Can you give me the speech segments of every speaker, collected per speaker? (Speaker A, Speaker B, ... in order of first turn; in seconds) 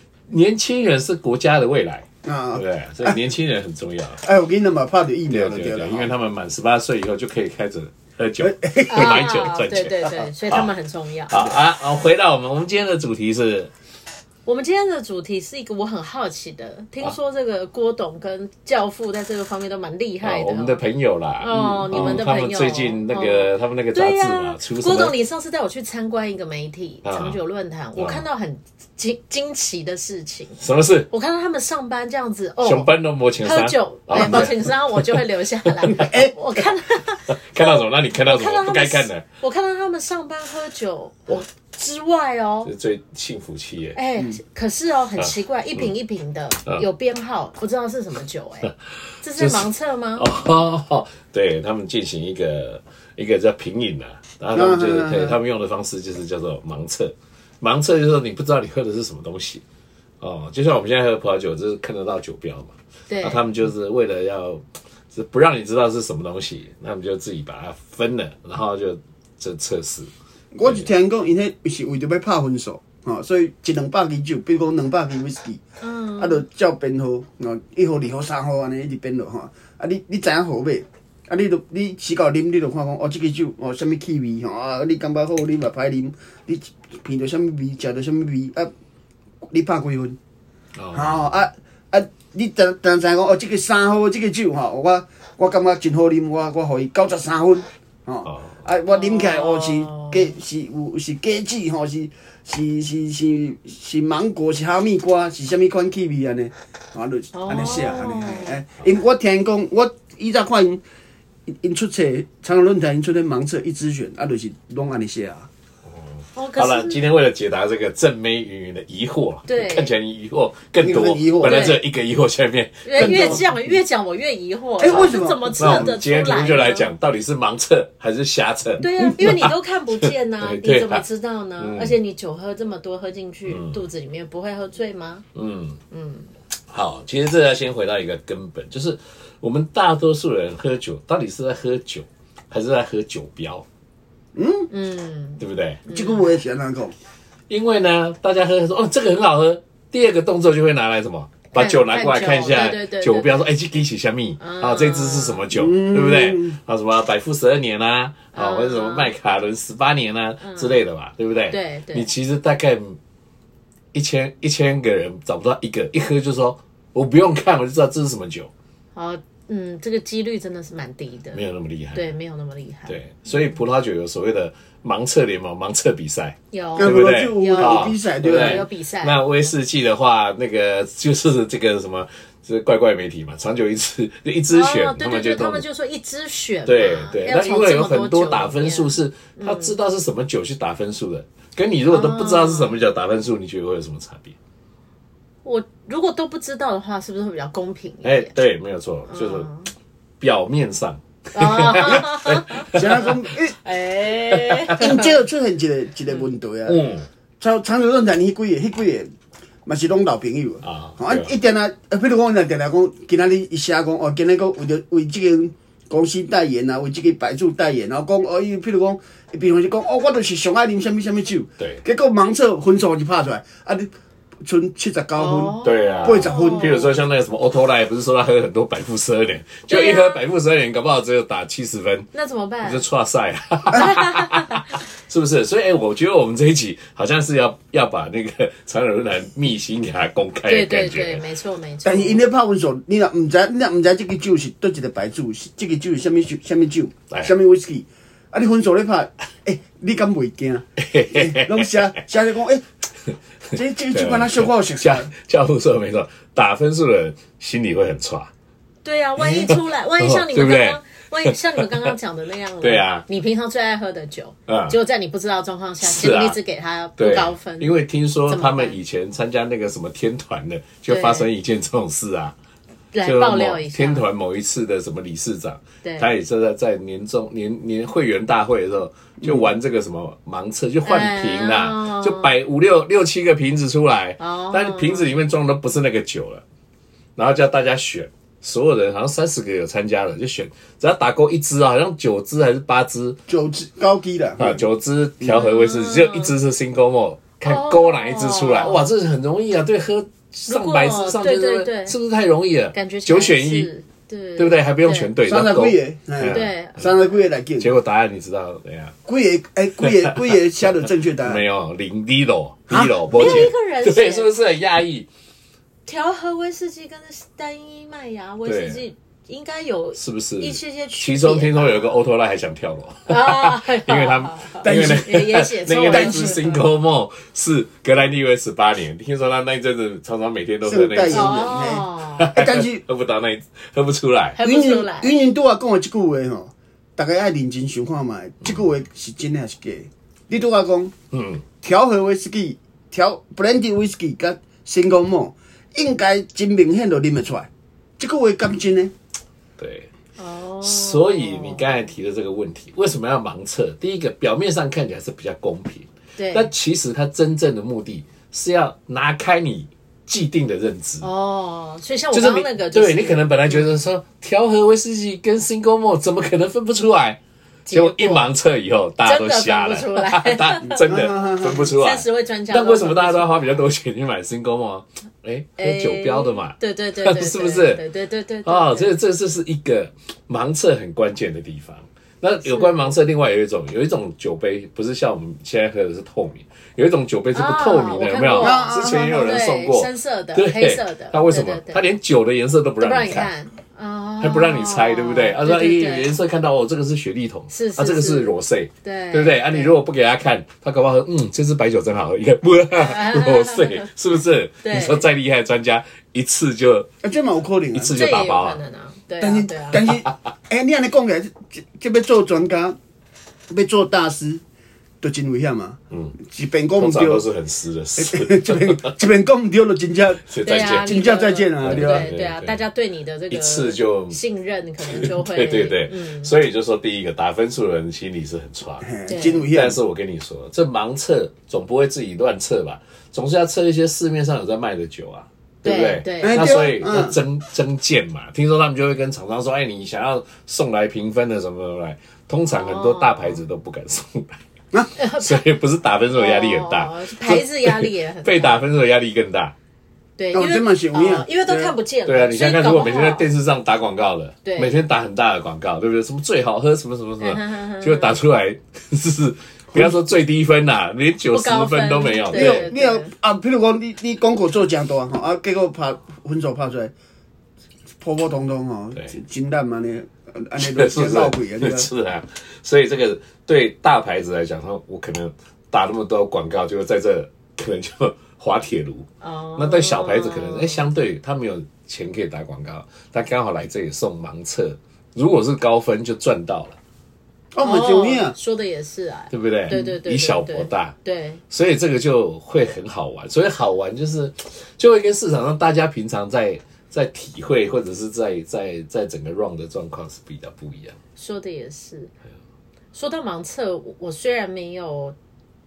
Speaker A: 0.3-4.2, 5.3-10.7, 11.3-13.7, 20.2-25.2, 27.0-27.4, 27.9-28.2, 30.6-31.1, 32.6-36.1, 37.3-39.2, 42.6-44.0, 45.2-45.9, 49.1-59.6, 60.2-70.1, 90.7-91.2, 98.2-98.6, 116.5-123.5, 124.9-131.0, 131.6-131.9, 133.4-133.8, 135.3-135.8, 136.7-143.6, 145.4-145.8, 147.5-163.0, 163.9-168.5, 171.3-172.1, 172.9-185.6, 186.7-194.3, 198.0-199.5, 200.2-203.1, 204.3-204.7, 206.7-207.1, 210.6-211.3, 225.6-232.1, 232.6-241.2, 250.8-251.7, 253.9-258.3, 259.2-261.9, 262.6-263.1, 264.5-264.8, 265.8-266.4, 267.0-272.3, 273.0-286.4, 287.1-293.2, 294.4-303.7, 304.4-306.5, 307.6-308.9, 311.2-315.1, 318.4-318.8, 319.9-334.4, 341.1-341.4, 349.6-349.9, 350.6-361.1, 362.1-367.2, 367.7-377.8, 378.4-393.3, 394.2-406.9, 407.7-408.6, 415.9-416.1, 416.8-419.0, 420.2-421.0, 421.6-422.6, 423.3-424.2, 424.9-428.9, 429.5-444.4, 445.1-449.5, 451.4-462.7, 470.6-486.8, 489.3-490.9, 491.5-501.0
Speaker B: 2.2-3.2, 4.2-6.1, 8.4-9.2, 21.5-22.2, 34.1-34.5, 35.8-36.4, 54.5-55.4, 70.5-75.6, 76.2-88.7, 89.5-90.2, 90.9-110.8, 111.5-115.5, 120.8-121.8, 123.0-123.5, 124.8-125.9, 128.9-129.4, 144.3-144.7, 145.9-146.9, 155.5-156.6, 176.8-178.6, 202.7-203.5, 204.8-206.8, 207.4-209.1, 209.6-223.9, 224.4-226.9, 241.8-252.6, 253.5-255.1, 279.2-279.5, 293.3-294.6, 305.2-307.7, 309.1-311.4, 312.7-313.5, 324.6-325.2, 325.8-326.6, 330.6-332.8, 334.4-340.9, 341.6-347.5, 348.0-348.9, 370.8-371.7, 388.4-389.1, 407.0-407.9, 409.2-412.8, 413.5-414.4, 415.0-417.3, 418.0-422.1, 428.8-429.8, 436.2-437.1, 450.3-451.3, 459.7-460.0, 462.3-466.9, 468.0-471.9, 487.5-488.3
Speaker C: 8.9-11.6, 14.4-20.8, 21.4-42.7, 43.9-50.3, 63.1-63.4, 75.8-76.4, 98.9-100.3, 107.3-108.6, 116.3-117.0, 119.5-119.9, 121.4-121.8, 122.8-126.9, 128.8-135.2, 135.9-136.3, 144.7-146.3, 151.5-153.5, 154.4-155.5, 158.3-159.1, 160.4-160.8, 161.5-162.1, 168.9-171.4, 171.9-173.4, 176.5-179.2, 184.5-189.8, 191.9-192.8, 195.4-198.3, 199.1-199.7, 201.3-203.1, 203.6-205.2, 225.2-226.9, 229.7-230.2, 232.1-232.8, 233.7-234.7, 240.4-242.2, 258.8-268.8, 270.9-271.3, 272.9-274.1, 275.8-276.1, 280.8-282.3, 284.2-285.1, 295.3-296.3, 297.4-298.9, 300.5-301.9, 302.7-305.1, 306.2-307.2, 313.1-314.3, 315.9-321.9, 323.1-326.6, 331.1-332.3, 334.3-335.1, 350.2-351.7, 356.1-356.5, 361.0-363.6, 367.6-368.3, 369.0-373.5, 375.6-378.9, 382.4-382.9, 387.3-391.9, 392.8-396.1, 397.5-399.8, 402.7-403.9, 404.6-405.1, 407.9-409.9, 420.4-426.3, 429.1-429.5, 435.6-436.6, 442.5-443.4, 444.9-445.5, 446.1-448.6, 450.2-453.3, 454.4-454.8, 457.2-458.2, 461.3-463.1, 479.2-480.8, 487.6-491.4, 501.2-502.1, 502.9-505.1